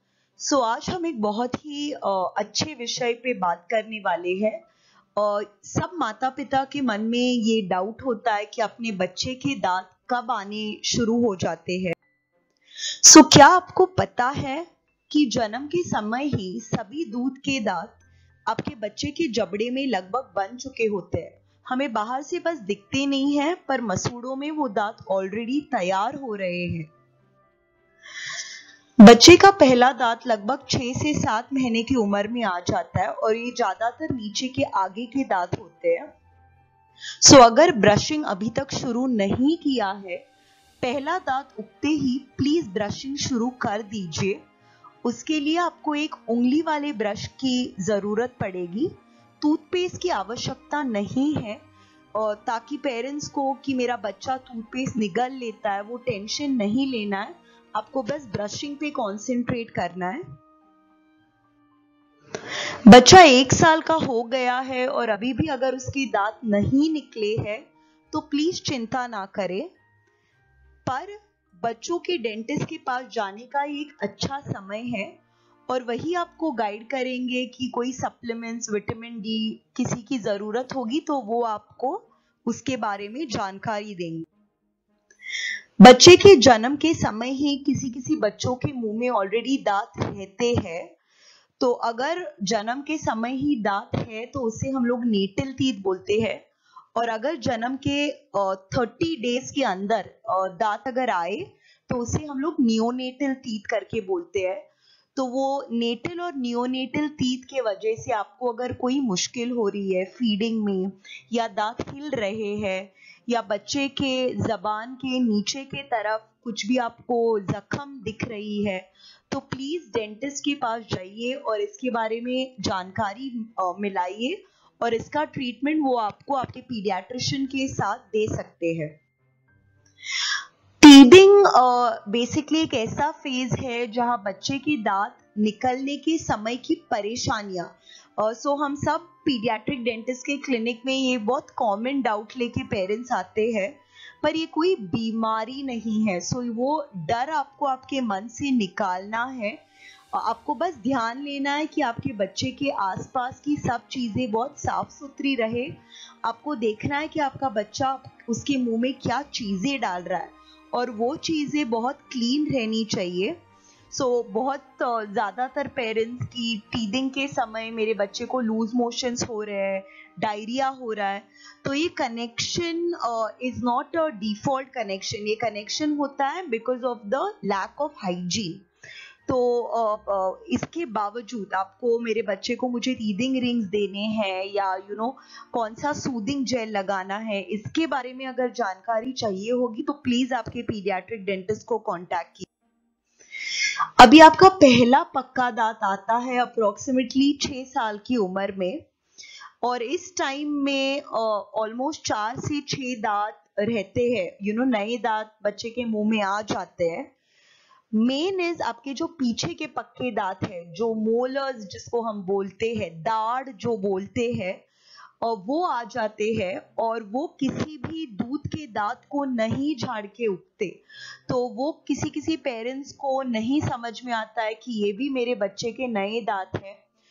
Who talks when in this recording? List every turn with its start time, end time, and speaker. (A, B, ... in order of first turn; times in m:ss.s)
0:00.4-0:04.6 A
0:05.2-0:12.0 A
0:13.0-0:26.9 A
0:29.0-0:36.1 A
0:37.2-0:40.2 A
0:40.8-0:44.4 A
0:45.0-0:51.6 A
0:52.1-1:00.2 A
1:02.9-1:09.7 A
1:10.8-1:15.2 A
1:15.7-1:24.3 A
1:25.8-1:30.9 A
1:31.6-2:08.9 A
2:10.2-2:29.6 A
2:30.1-2:43.4 A
2:43.9-2:58.6 A
2:59.3-3:12.5 A
3:13.5-3:18.8 A
3:19.6-3:27.1 A
3:27.9-3:34.6 A
3:35.2-3:46.8 A